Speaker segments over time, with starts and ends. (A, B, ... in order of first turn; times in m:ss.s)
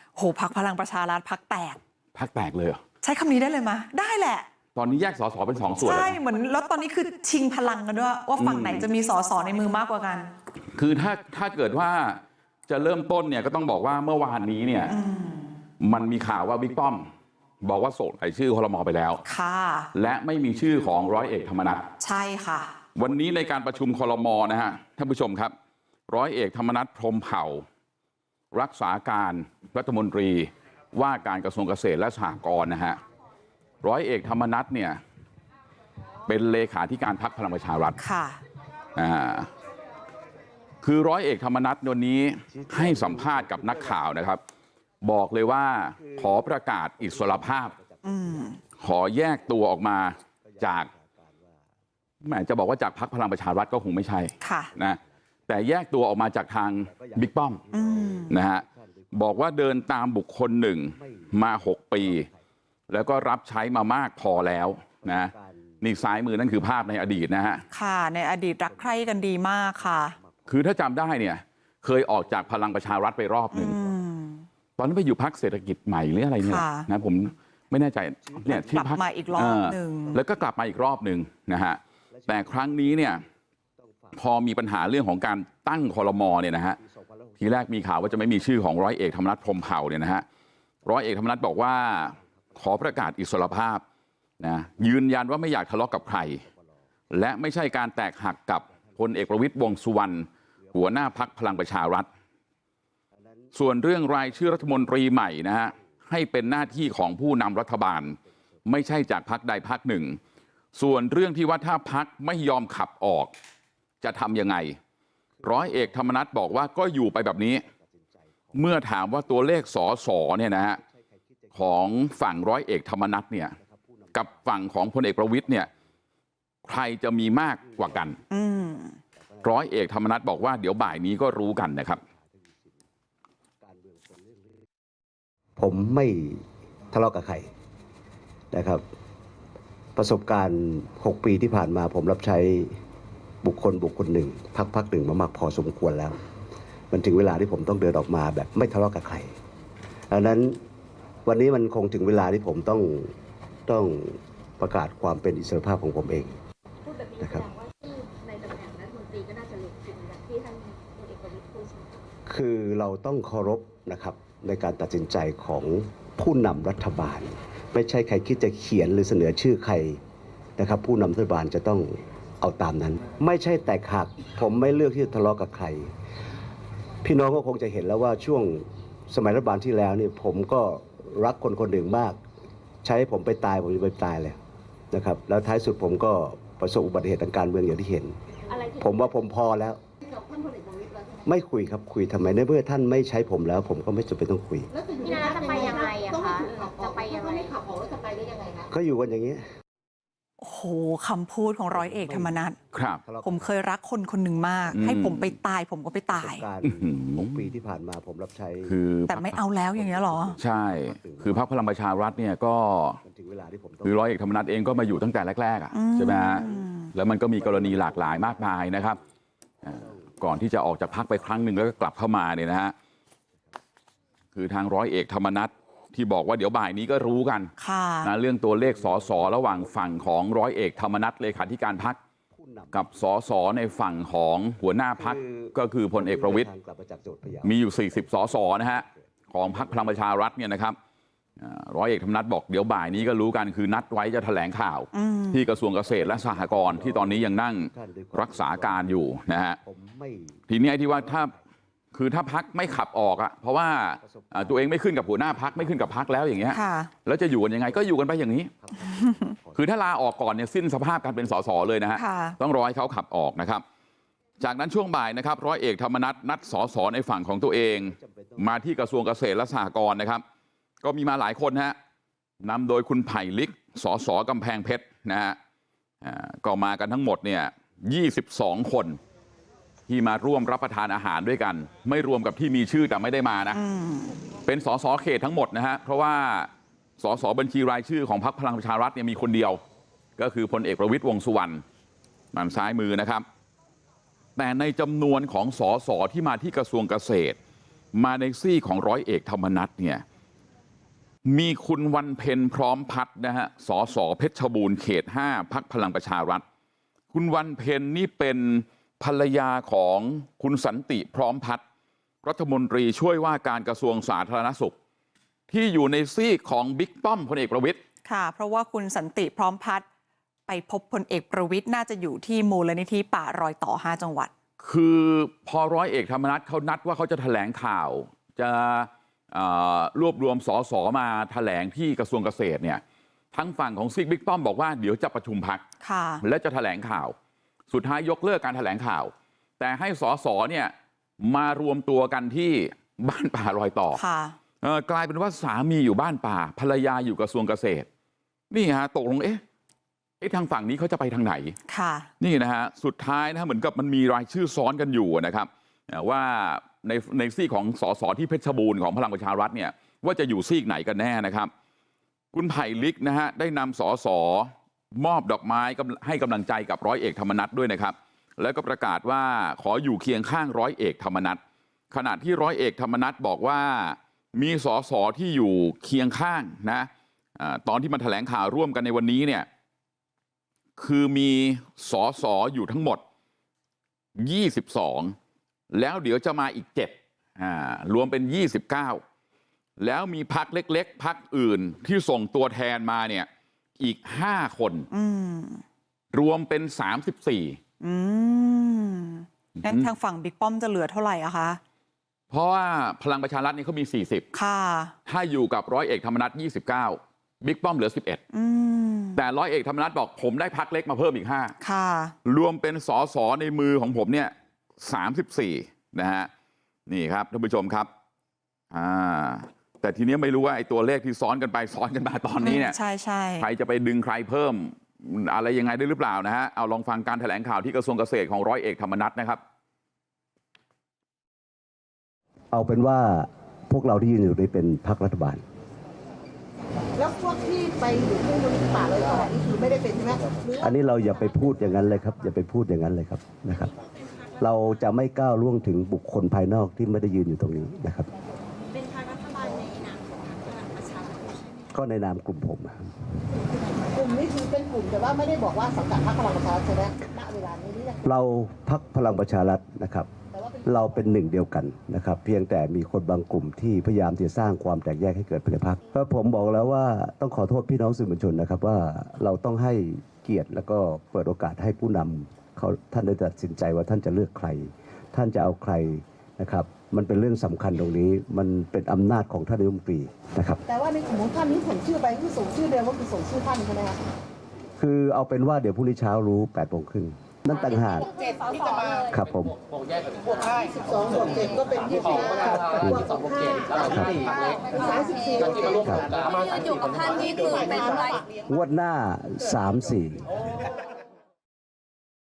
0:00.2-0:01.8 A
0:02.2-0:02.8 B
0:03.0-0:04.5 A
0:04.8-0:06.2 B
0:05.8-0:10.3 A
0:08.4-0:08.9 B
0:10.8-0:15.0 B
0:14.9-0:15.6 A
0:15.8-0:17.1 B
0:17.6-0:19.2 B
0:19.2-0:19.9 A
0:19.9-0:21.9 B
0:22.0-0:22.7 A
0:23.0-0:25.5 B
0:26.1-0:27.6 B
0:28.5-0:33.0 B
0:33.8-0:35.0 B
0:36.3-0:38.0 B
0:38.0-0:38.4 A
0:39.0-0:39.5 B
0:40.8-0:44.4 B
0:42.5-0:44.0 C
0:45.0-0:47.8 B
0:46.0-0:48.6 C
0:48.0-0:48.6 A
0:48.8-0:50.9 B
0:50.4-0:51.6 C
0:52.2-0:57.6 B
0:54.4-0:54.7 A
0:54.8-0:55.0 C
0:56.8-0:59.3 C
0:57.7-0:58.4 A
0:58.3-1:02.3 B
1:01.0-1:01.4 C
1:02.0-1:02.4 C
1:02.9-1:07.6 B
1:05.0-1:05.8 C
1:07.7-1:10.2 A
1:08.7-1:10.5 C
1:10.5-1:13.8 B
1:13.5-1:14.5 A
1:14.8-1:23.2 B
1:16.4-1:16.9 A
1:18.2-1:20.2 C
1:18.5-1:20.2 A
1:22.1-1:23.2 C
1:23.8-1:24.2 C
1:24.2-1:26.8 B
1:26.8-1:28.6 C
1:27.4-1:30.2 B
1:30.9-1:33.8 B
1:32.2-1:33.1 C
1:34.4-1:36.4 B
1:36.1-1:36.8 C
1:37.1-1:42.1 B
1:38.7-1:39.0 C
1:40.6-1:41.2 C
1:43.2-1:43.5 C
1:43.5-1:50.2 B
1:44.2-1:45.0 C
1:50.8-1:53.3 B
1:54.0-1:54.8 B
1:55.4-1:56.0 C
1:55.4-1:57.7 B
1:57.8-1:59.6 C
1:58.6-2:00.8 B
2:00.8-2:01.7 C
2:01.5-2:03.6 B
2:03.6-2:04.7 C
2:04.1-2:05.7 B
2:05.5-2:05.8 C
2:06.6-2:08.2 B
2:07.6-2:08.4 C
2:08.3-2:09.0 A
2:09.1-2:09.6 C
2:09.4-2:12.0 B
2:11.9-2:12.8 C
2:13.6-2:14.7 C
2:15.6-2:17.5 C
2:18.5-2:18.8 C
2:20.0-2:22.8 C
2:23.4-2:26.2 C
2:26.9-2:29.3 C
2:30.1-2:30.6 C
2:31.3-2:33.1 C
2:33.7-2:36.4 C
2:36.9-2:42.1 D
2:37.2-2:37.5 C
2:42.3-2:50.0 C
2:50.6-2:55.9 C
2:57.0-3:02.2 C
3:02.8-3:04.4 C
3:04.9-3:08.2 C
3:08.5-3:09.2 D
3:08.8-3:09.8 C
3:10.1-3:11.2 D
3:11.2-3:14.7 C
3:14.8-3:18.6 D
3:15.0-3:17.4 E
3:18.7-3:19.4 C
3:20.4-3:22.6 A
3:21.7-3:22.5 C
3:22.7-3:23.0 B
3:23.0-3:23.5 C
3:23.2-3:26.4 A
3:24.7-3:25.3 B
3:26.1-3:28.8 C
3:26.6-3:27.5 B
3:28.7-3:29.4 B
3:29.1-3:30.4 A
3:29.7-3:31.5 C
3:30.4-3:33.0 B
3:33.0-3:34.0 C
3:33.8-3:39.0 B
3:35.7-3:36.9 A
3:36.4-3:36.7 C
3:37.4-3:39.1 C
3:39.6-3:40.2 C
3:39.6-3:42.7 B
3:44.3-3:52.0 B
3:47.6-3:48.1 A
3:48.6-3:49.9 C
3:52.3-3:52.9 C
3:52.7-3:56.5 B
3:55.0-4:00.1 C
3:57.4-4:00.8 B
4:01.4-4:09.6 B
4:04.9-4:05.4 A
4:05.9-4:09.0 C
4:09.6-4:10.4 C
4:10.5-4:11.4 B
4:11.0-4:11.4 C
4:11.9-4:18.5 B
4:14.1-4:14.5 C
4:16.5-4:16.9 A
4:18.6-4:19.6 C
4:19.6-4:23.6 B
4:22.0-4:22.4 A
4:24.4-4:30.2 B
4:27.7-4:28.5 C
4:30.8-4:31.8 B
4:32.4-4:35.4 B
4:36.0-4:39.0 B
4:39.9-4:43.6 B
4:43.5-4:44.2 A
4:44.4-4:49.6 B
4:50.2-4:51.6 B
4:52.3-4:53.2 B
4:54.4-4:57.4 B
4:58.0-5:00.0 B
5:01.3-5:06.4 B
5:07.1-5:11.6 B
5:12.2-5:14.8 B
5:15.5-5:17.8 B
5:18.1-5:19.8 A
5:20.5-5:24.3 A
5:24.6-5:32.8 B
5:33.3-5:35.6 B
5:35.8-5:36.2 A
5:36.2-5:37.2 B
5:37.7-5:44.0 B
5:43.9-5:44.4 A
5:44.6-5:47.9 B
5:48.5-5:49.4 B
5:50.2-5:51.6 B
5:51.7-5:52.1 A
5:52.2-6:01.5 B
6:02.3-6:11.4 B
6:11.9-6:19.5 B
6:20.8-6:23.0 B
6:24.2-6:25.2 B
6:25.7-6:29.0 B
6:29.8-6:33.3 B
6:33.8-6:34.9 B
6:34.9-6:35.6 A
6:36.1-6:37.6 B
6:37.8-6:41.6 A
6:39.6-6:39.9 B
6:42.3-6:44.3 B
6:44.3-6:44.9 A
6:45.1-6:48.2 B
6:48.3-6:49.2 A
6:49.2-6:51.6 B
6:51.6-6:52.2 A
6:52.2-6:56.3 B
6:56.9-6:57.9 B
6:58.7-7:02.8 B
7:02.4-7:03.5 A
7:03.4-7:09.4 B
7:12.5-7:15.4 C
7:17.0-7:20.7 E
7:20.5-7:23.7 C
7:24.4-7:28.1 C
7:28.8-7:31.4 D
7:31.7-7:33.0 C
7:33.8-7:38.0 E
7:38.0-7:40.1 C
7:40.4-7:40.6 E
7:40.6-8:00.6 C
8:00.7-8:04.0 E
8:04.8-8:08.1 C
8:09.0-8:09.6 C
8:10.5-8:13.9 E
8:12.8-8:13.1 C
8:13.8-8:14.3 C
8:14.5-8:15.8 E
8:15.7-8:16.3 C
8:16.5-8:17.7 D
8:17.4-8:18.2 E
8:18.4-8:20.4 C